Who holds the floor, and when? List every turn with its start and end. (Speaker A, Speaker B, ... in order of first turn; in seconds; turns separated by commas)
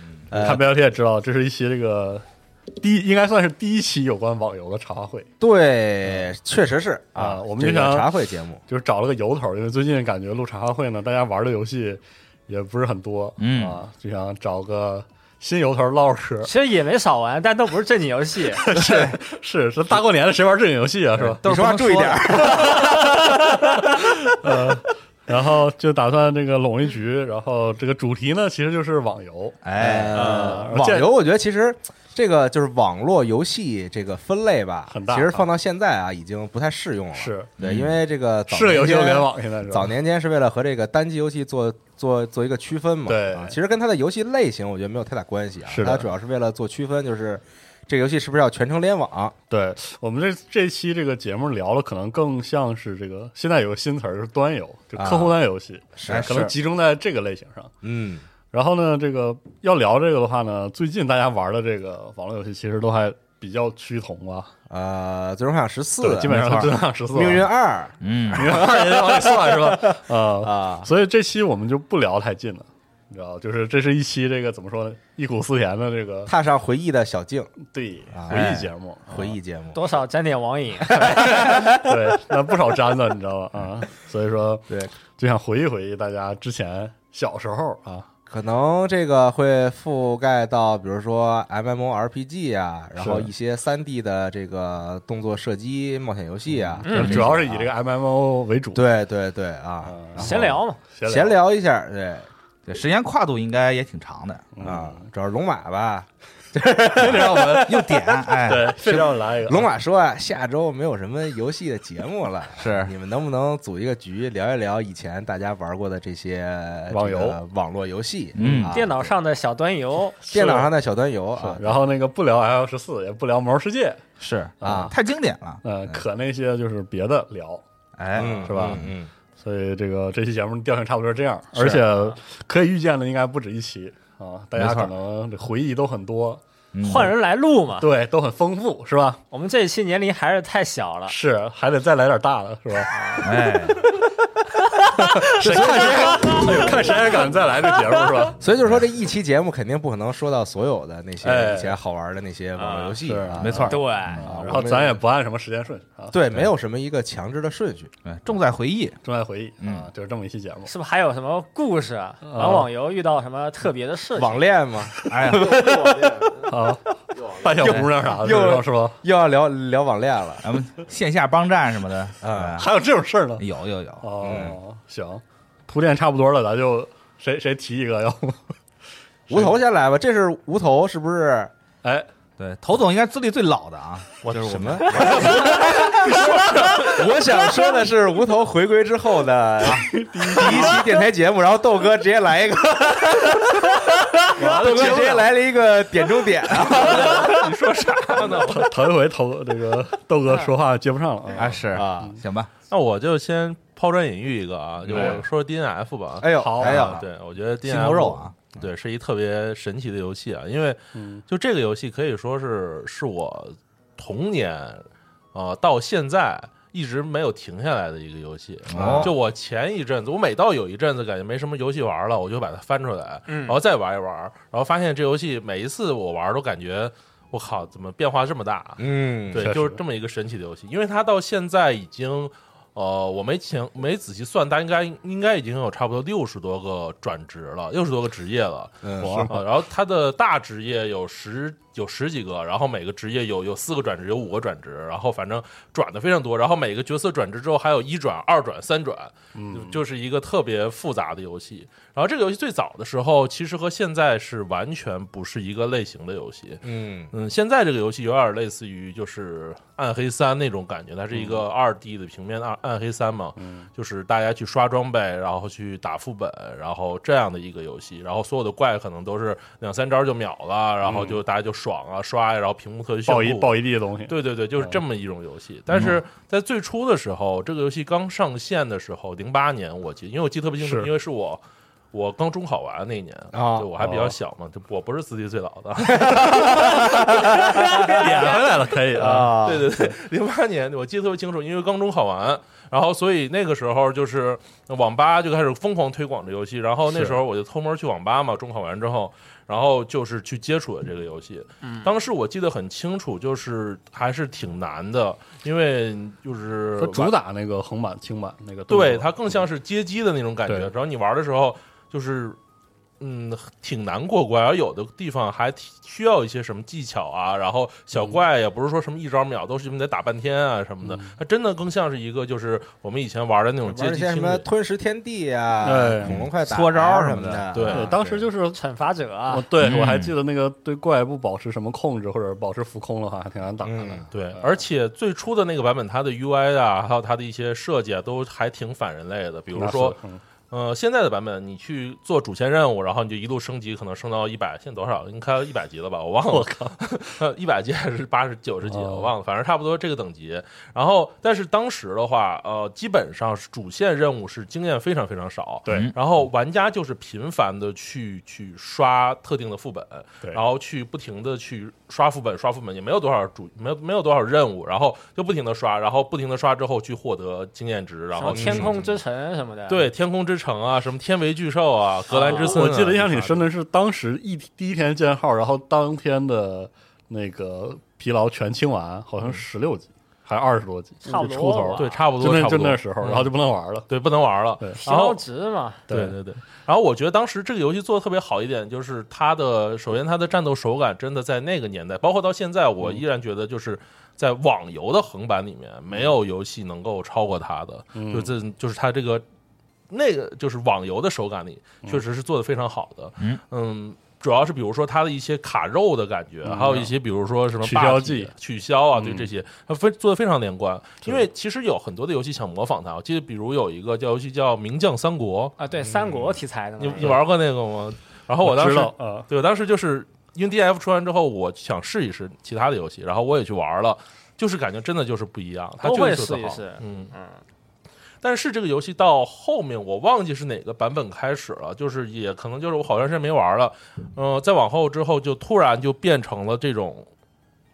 Speaker A: 0.3-0.7, Speaker B: 0.3-5.3, Speaker A: 5.4-8.6, Speaker B: 7.2-8.1, Speaker B: 8.7-16.5, Speaker C: 13.4-13.8, Speaker D: 16.4-18.6, Speaker B: 18.6-21.4, Speaker C: 18.7-19.2, Speaker A: 21.2-23.8, Speaker C: 21.4-22.9, Speaker B: 24.3-31.1, Speaker C: 29.6-30.4, Speaker A: 29.8-49.4, Speaker B: 34.9-35.5, Speaker B: 37.1-37.6, Speaker C: 37.6-38.0, Speaker B: 38.5-40.0, Speaker B: 43.1-43.6, Speaker B: 45.6-46.1, Speaker B: 49.5-57.7, Speaker A: 55.0-55.4, Speaker A: 56.0-56.5, Speaker C: 56.1-56.5, Speaker A: 57.8-58.3, Speaker B: 58.5-64.5, Speaker A: 64.7-70.9, Speaker B: 66.0-67.5, Speaker C: 68.0-68.6, Speaker B: 68.3-76.3, Speaker A: 76.3-77.6, Speaker B: 77.6-79.4, Speaker A: 78.1-79.9, Speaker D: 79.7-81.2, Speaker A: 80.9-82.0, Speaker B: 81.1-88.1, Speaker A: 88.3-97.7, Speaker B: 93.0-93.3, Speaker B: 96.5-98.8, Speaker D: 96.8-97.3, Speaker A: 98.8-102.3, Speaker B: 99.8-101.4, Speaker D: 100.2-100.8, Speaker C: 102.7-104.5, Speaker B: 104.6-105.0, Speaker A: 104.6-119.1, Speaker B: 107.0-109.7, Speaker C: 107.7-108.8, Speaker C: 112.6-113.0, Speaker B: 116.9-117.4, Speaker B: 118.4-118.7, Speaker C: 118.4-118.8, Speaker D: 118.7-120.2, Speaker B: 120.2-120.7, Speaker A: 120.3-121.8, Speaker B: 121.4-124.0, Speaker C: 124.2-126.0, Speaker B: 124.6-124.9, Speaker A: 124.6-124.9, Speaker B: 125.6-127.6, Speaker C: 128.0-128.9, Speaker A: 128.2-129.1, Speaker B: 128.2-136.4, Speaker C: 134.6-134.9, Speaker C: 136.8-137.1, Speaker D: 136.8-137.9, Speaker B: 137.8-139.2, Speaker D: 139.3-141.2, Speaker B: 141.1-143.2, Speaker D: 142.9-143.3, Speaker C: 143.2-143.8, Speaker D: 144.7-145.3, Speaker B: 145.0-148.4, Speaker A: 145.4-147.1, Speaker D: 146.1-146.7, Speaker D: 147.6-148.0, Speaker A: 148.4-155.0, Speaker B: 151.2-151.8, Speaker D: 152.6-153.0, Speaker B: 153.0-156.1, Speaker C: 153.3-154.2, Speaker D: 153.7-154.3, Speaker A: 156.1-157.9, Speaker C: 158.1-159.0, Speaker B: 159.0-160.7, Speaker C: 159.6-159.9, Speaker D: 160.7-164.4, Speaker B: 162.2-162.7, Speaker A: 164.2-166.4, Speaker B: 165.0-165.3, Speaker C: 165.1-165.5, Speaker B: 166.5-169.0, Speaker C: 167.6-167.9, Speaker A: 168.1-170.5, Speaker C: 170.4-172.7, Speaker A: 172.2-172.7, Speaker B: 172.6-173.4, Speaker C: 173.4-174.4, Speaker B: 174.0-178.6, Speaker A: 174.2-174.6, Speaker B: 179.3-179.6, Speaker A: 179.3-181.5, Speaker B: 181.8-182.1, Speaker C: 182.4-185.6, Speaker A: 184.3-197.5, Speaker E: 186.1-187.1, Speaker B: 189.7-191.1, Speaker B: 194.4-195.3, Speaker E: 194.8-195.3, Speaker E: 196.5-198.8, Speaker B: 198.2-201.7, Speaker C: 201.4-202.5, Speaker A: 201.7-202.2, Speaker E: 202.7-281.4, Speaker A: 204.9-205.2, Speaker A: 206.2-207.0, Speaker B: 206.4-206.9, Speaker C: 206.6-207.0, Speaker C: 207.6-208.3, Speaker B: 210.9-211.2, Speaker C: 218.7-219.1, Speaker A: 218.7-219.1, Speaker D: 223.3-223.6, Speaker A: 228.8-229.5, Speaker B: 229.4-229.8, Speaker A: 238.8-239.3, Speaker B: 239.0-239.4, Speaker B: 249.3-249.8, Speaker A: 256.6-257.1, Speaker B: 263.4-263.7, Speaker B: 270.8-271.2, Speaker B: 273.1-274.8, Speaker B: 280.6-280.9, Speaker E: 281.9-288.7, Speaker A: 283.3-283.7, Speaker B: 283.8-284.1, Speaker A: 285.9-288.3, Speaker B: 287.8-289.4, Speaker A: 288.9-289.9, Speaker E: 289.4-307.1, Speaker B: 296.9-297.2, Speaker D: 301.6-301.9, Speaker B: 306.8-309.4, Speaker E: 308.7-312.4, Speaker B: 310.5-310.7, Speaker E: 313.0-324.5, Speaker B: 320.8-321.1, Speaker A: 323.6-328.3, Speaker B: 325.6-326.3, Speaker C: 326.0-327.5, Speaker E: 327.5-327.9, Speaker B: 327.7-328.6, Speaker D: 328.5-329.5, Speaker B: 329.3-334.6, Speaker C: 329.6-330.1, Speaker A: 333.6-334.1, Speaker E: 334.1-340.0, Speaker B: 339.5-340.2, Speaker E: 340.5-369.0, Speaker B: 346.3-346.8, Speaker B: 348.7-349.1, Speaker B: 355.7-355.9, Speaker C: 355.7-355.9, Speaker D: 368.1-369.9, Speaker A: 368.3-368.7, Speaker E: 369.7-373.5, Speaker D: 372.1-372.6, Speaker B: 372.2-383.9, Speaker D: 381.0-381.9, Speaker E: 381.8-383.3, Speaker E: 383.9-385.2, Speaker D: 384.8-385.8, Speaker B: 385.9-386.2, Speaker E: 385.9-399.2, Speaker B: 397.9-398.3, Speaker E: 399.9-415.6, Speaker B: 406.4-406.9, Speaker B: 407.6-408.3, Speaker B: 408.9-409.3, Speaker D: 415.6-417.2, Speaker E: 416.8-427.1, Speaker B: 418.4-419.3, Speaker D: 425.8-427.4, Speaker E: 428.2-437.1